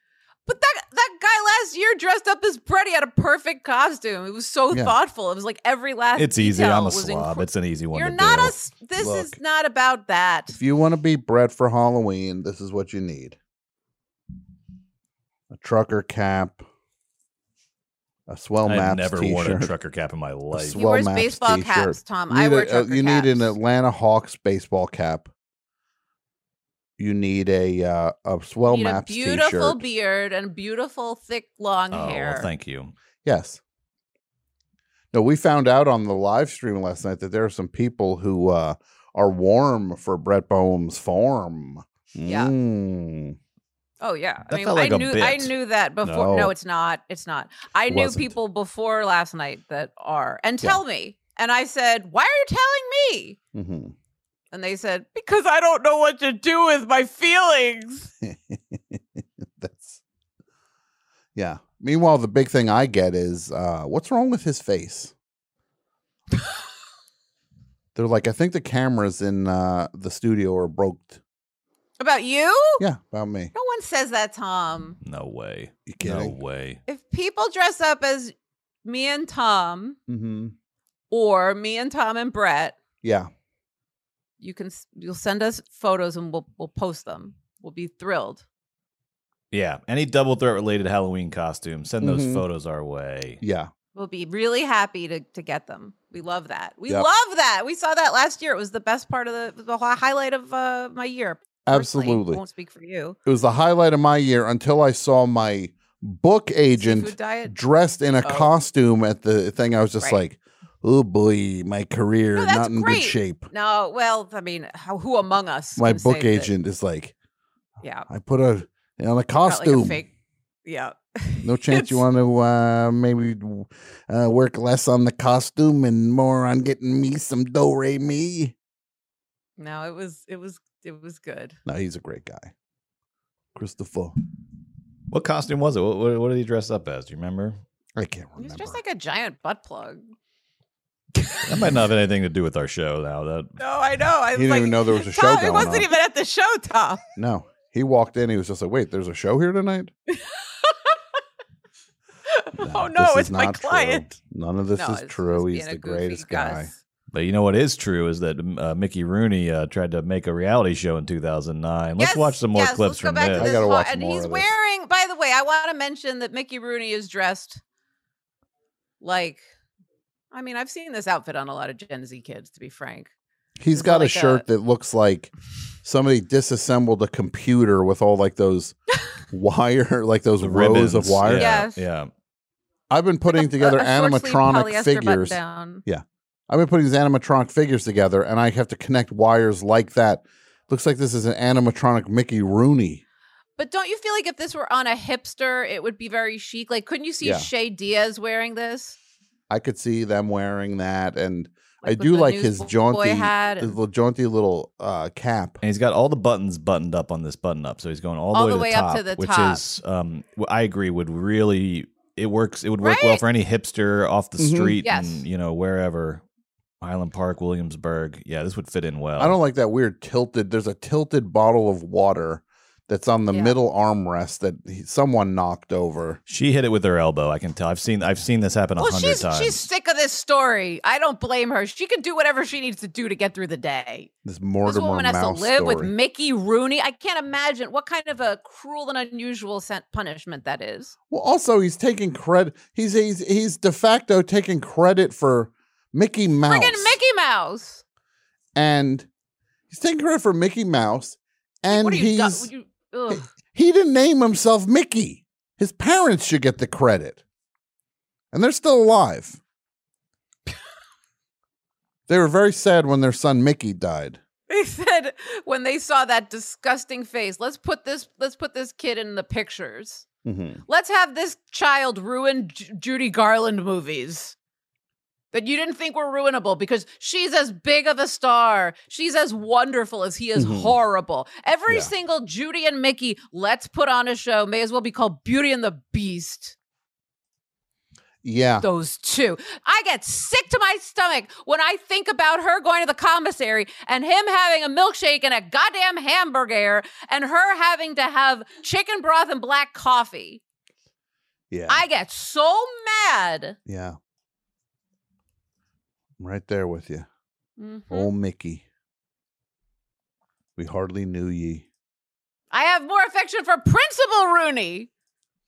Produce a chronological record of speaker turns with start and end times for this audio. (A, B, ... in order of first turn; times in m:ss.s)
0:00.5-0:10.6 A
0:06.2-0:08.6 B
0:09.0-0:09.4 C
0:10.6-0:13.4 C
0:15.5-0:16.7 C
0:18.3-0:19.7 C
0:18.6-0:20.8 B
0:20.5-0:25.3 C
0:20.8-0:23.6 A
0:27.0-0:29.8 C
0:28.7-0:32.5 A
0:31.9-0:32.9 B
0:33.2-0:33.6 C
0:35.1-0:43.4 C
0:42.2-0:42.5 A
0:44.0-0:53.4 A
0:44.5-0:45.5 B
0:46.0-0:46.5 C
0:47.9-0:48.4 C
0:53.6-0:54.0 C
0:54.5-0:58.1 A
0:58.2-1:00.0 C
1:01.4-1:05.1 C
1:08.0-1:11.2 C
1:12.0-1:12.8 A
1:12.8-1:13.5 C
1:13.6-1:15.0 A
1:15.0-1:16.8 B
1:15.9-1:16.4 C
1:16.9-1:20.0 A
1:20.1-1:20.6 C
1:21.1-1:22.8 A
1:23.0-1:23.3 C
1:24.4-1:28.4 A
1:29.5-1:33.4 B
1:32.0-1:32.4 C
1:33.4-1:33.7 C
1:34.0-1:43.2 A
1:41.6-1:42.4 C
1:43.2-1:53.5 C
1:46.8-1:47.6 A
1:48.2-1:48.5 A
1:52.4-1:56.5 A
1:55.8-1:57.1 C
1:57.8-1:58.1 A
1:58.1-2:00.0 C
1:59.5-2:00.1 A
2:00.6-2:02.0 A
2:01.4-2:08.6 C
2:09.6-2:11.6 A
2:11.6-2:12.5 C
2:13.6-2:14.2 C
2:15.1-2:17.6 B
2:18.0-2:18.8 C
2:18.4-2:20.2 A
2:21.5-2:23.6 B
2:23.6-2:27.0 A
2:24.3-2:25.9 C
2:27.2-2:29.9 C
2:30.1-2:30.9 A
2:32.3-2:34.1 A
2:32.6-2:36.7 C
2:34.8-2:36.8 A
2:37.1-2:43.6 B
2:42.0-2:47.6 A
2:43.3-2:44.5 C
2:49.0-2:49.4 A
2:50.3-2:53.1 A
2:53.6-2:55.3 C
2:53.7-2:54.4 A
2:55.8-2:58.8 C
2:59.3-3:01.6 C
3:00.4-3:02.1 B
3:01.3-3:01.8 A
3:02.9-3:13.0 C
3:03.3-3:05.8 A
3:13.6-3:19.0 A
3:17.2-3:17.5 C
3:19.5-3:25.6 C
3:21.8-3:23.8 A
3:25.6-3:36.2 B
3:28.3-3:29.6 A
3:32.8-3:33.2 A
3:34.4-3:34.8 C
3:34.8-3:35.2 A
3:36.8-3:39.4 B
3:39.2-3:46.2 C
3:43.3-3:43.6 A
3:46.3-3:49.7 B
3:48.8-3:54.1 A
3:54.2-3:55.9 C
3:54.6-4:01.0 A
4:01.1-4:07.0 C
4:06.5-4:07.8 A
4:08.6-4:09.1 C
4:09.7-4:12.5 C
4:11.7-4:13.3 A
4:13.1-4:17.2 C
4:18.3-4:19.4 C
4:22.1-4:24.2 C
4:24.5-4:30.0 A
4:30.2-4:30.6 C
4:30.7-4:34.4 A
4:35.3-4:46.6 A
4:40.4-4:40.8 C
4:48.2-4:48.7 C
4:48.6-5:00.4 A
5:01.5-5:01.8 C
5:01.7-5:03.6 A
5:03.7-5:04.0 C
5:06.2-5:07.1 C
5:07.6-5:08.1 A
5:07.9-5:08.7 C
5:10.6-5:11.7 C
5:12.5-5:14.9 A